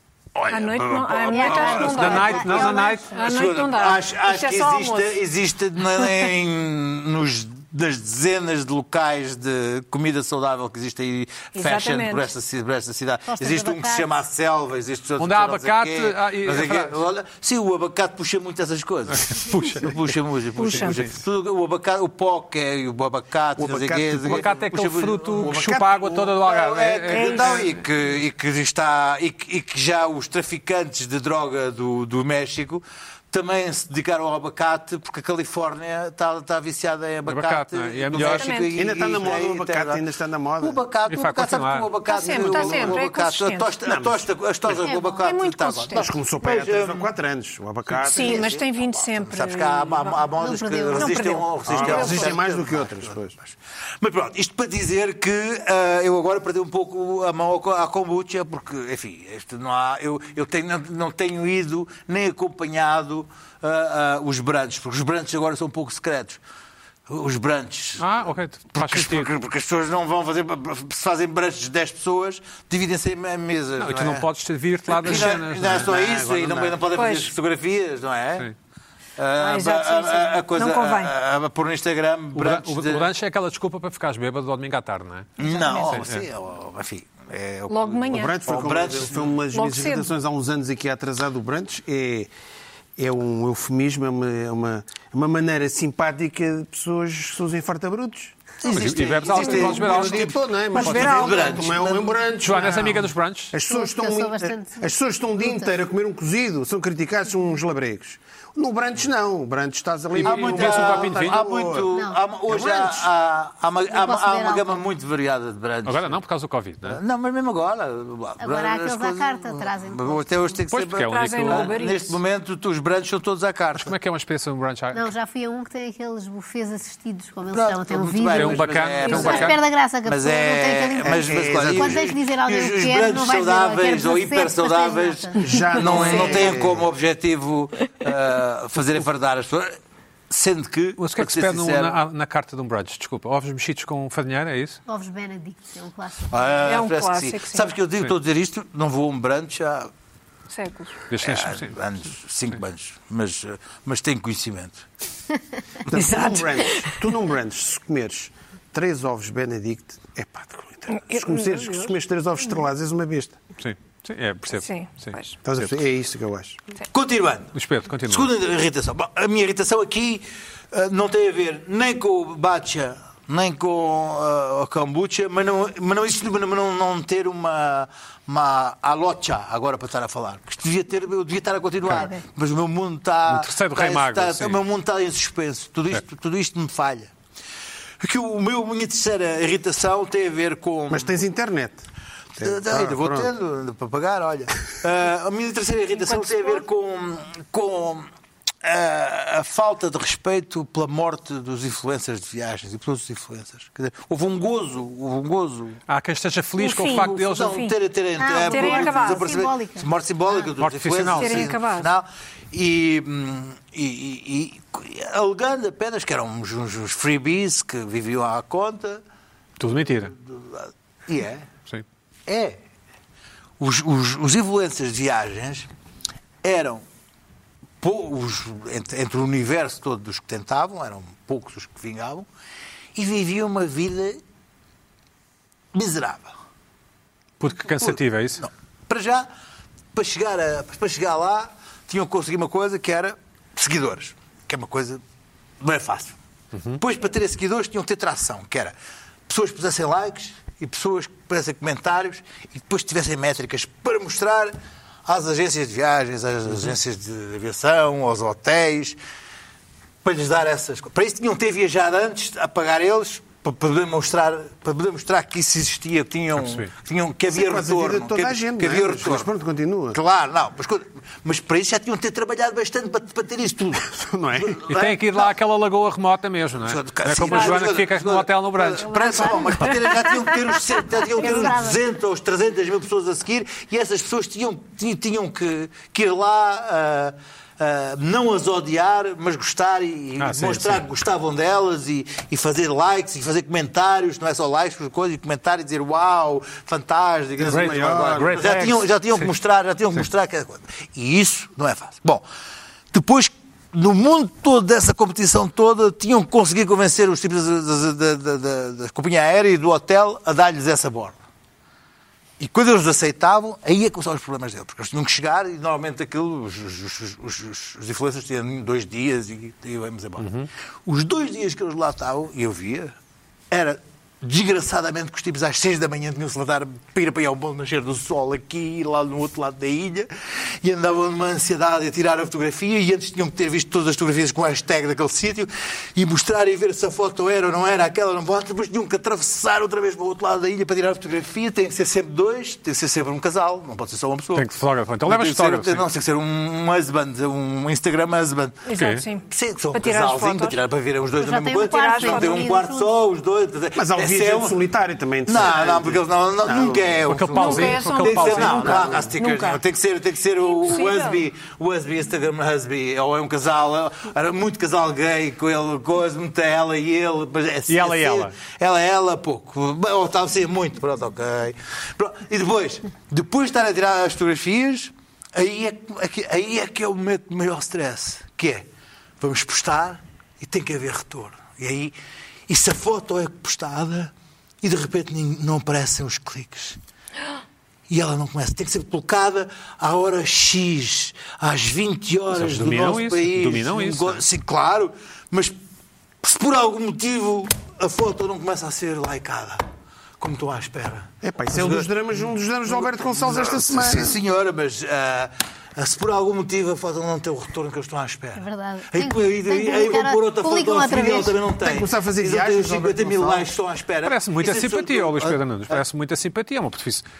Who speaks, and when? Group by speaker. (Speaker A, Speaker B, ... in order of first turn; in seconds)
Speaker A: 0.3-40.0, 40.6-47.1, 47.9-66.4, 67.1-68.2, 68.7-74.3, 74.9-78.5, 79.2-83.1, 85.4-89.4, 98.6-102.1, 110.2-116.2, 116.9-123.9, 127.5-139.7, 140.3-142.0, 146.3-149.9, 151.2-154.8, 166.9-187.1, 188.0-191.2, 192.4-198.1, 198.6-205.8, 207.0-219.0, 220.2-221.5, 222.3-222.6, 223.6-225.7, 226.4-226.8, 227.8-232.3, 233.0-234.2, 235.7-236.3, 237.7-239.3, 239.9-245.0, 245.6-246.2, 246.8-248.7, 249.3-254.5, 255.1-259.0, 260.0-269.3, 269.9-275.3, 276.6-302.2, 302.9-311.2, 312.4-320.3, 320.9-322.9, 323.5-330.1, 330.6-344.5, 345.1-348.6, 349.3-354.6, 355.3-378.7, 379.2-381.9, 382.5-386.8, 387.9-395.6, 396.2-399.6, 400.2-401.9, 402.7-415.8
Speaker B: 0.5-5.2, 11.6-12.3, 20.6-21.1, 27.1-27.6, 38.2-38.8, 42.0-43.7, 45.1-46.1, 48.1-50.2, 51.0-52.3, 76.9-77.3, 79.4-81.1, 85.5-85.9, 87.7-88.4, 89.5-90.1, 100.8-101.5, 121.0-122.2, 146.6-147.7, 150.5-151.0, 155.9-156.9, 161.0-161.9, 164.6-165.4, 196.0-196.6, 206.6-207.7, 208.5-209.3, 211.2-211.9, 277.2-277.7, 348.7-350.6, 351.6-352.5, 357.4-359.6, 360.5-361.2
Speaker C: 1.3-3.0, 13.3-14.1, 44.8-45.2, 50.4-51.4, 103.7-104.9, 105.4-105.7, 113.9-114.8, 118.4-120.6, 124.9-136.5, 144.9-146.6, 181.9-182.2, 208.2-210.5, 278.8-279.7, 281.1-281.8, 351.2-352.9, 408.4-411.4
Speaker D: 1.9-3.1, 15.2-17.0, 19.1-19.9, 20.8-21.1, 24.2-27.8, 37.3-38.5, 41.1-41.9, 68.0-69.3, 73.8-75.9, 82.3-86.2, 98.7-101.3, 102.4-103.5, 110.1-111.4, 115.8-117.0, 120.7-121.8, 123.8-125.1, 128.4-129.6, 141.0-144.8, 151.1-151.8, 163.6-165.7, 167.6-168.3, 183.3-184.6, 205.9-207.6, 210.6-211.5, 219.6-220.1, 237.4-238.4, 246.5-246.8, 266.4-266.7, 274.7-278.9, 290.2-290.9, 297.5-299.3, 320.2-320.5, 344.4-345.8, 348.8-349.0, 357.1-359.0, 367.7-368.4, 392.3-394.2, 414.1-417.1
Speaker E: 23.6-24.5, 25.4-26.4, 38.8-40.8, 42.4-43.0, 43.9-44.2, 45.9-48.5, 51.6-53.4, 75.1-76.8, 88.1-92.3, 93.0-98.4, 99.3-112.0, 112.5-113.1, 131.0-132.1, 135.4-136.9, 155.9-163.4, 165.4-166.6, 190.9-191.8, 192.4-193.3, 267.3-270.0, 273.9-274.6, 297.4-298.7, 353.8-357.1, 358.4-359.1, 401.2-404.2, 411.6-413.5